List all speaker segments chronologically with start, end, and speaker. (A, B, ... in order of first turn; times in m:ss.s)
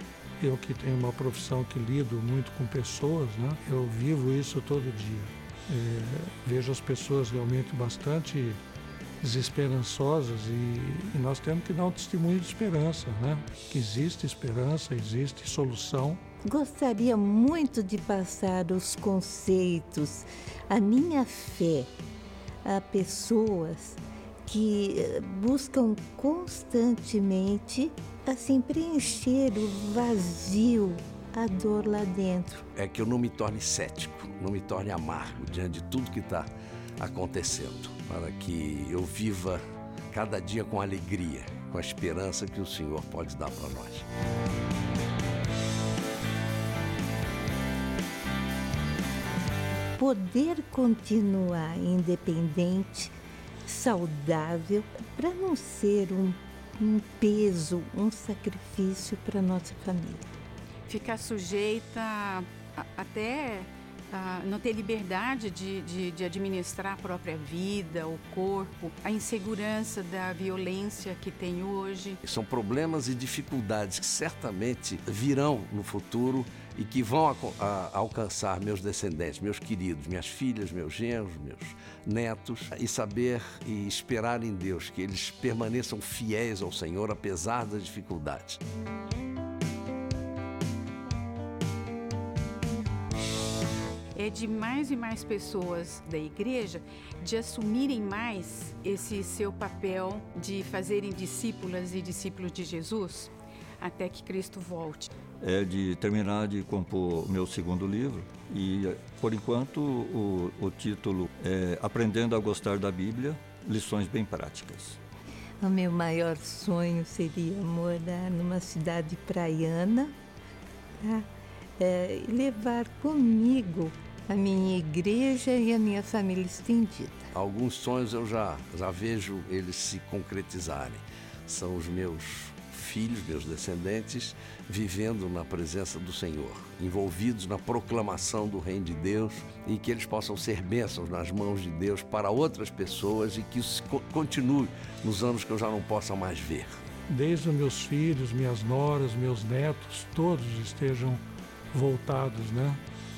0:00.4-0:08.6 A
0:09.2-0:16.2 A
0:16.4-0:21.9 B
0:22.6-0:32.6 B
0:32.7-0:36.5 C
0:37.0-0:44.0 C
0:50.0-0:53.1 B
0:53.6-1:00.3 B
1:00.8-1:12.2 D
1:12.2-1:28.6 C
1:34.1-1:45.1 D
1:45.4-1:55.0 E
1:55.6-2:00.1 B
2:01.8-2:07.3 B
2:07.3-2:26.8 C
2:27.1-2:31.2 A
2:31.7-2:32.8 A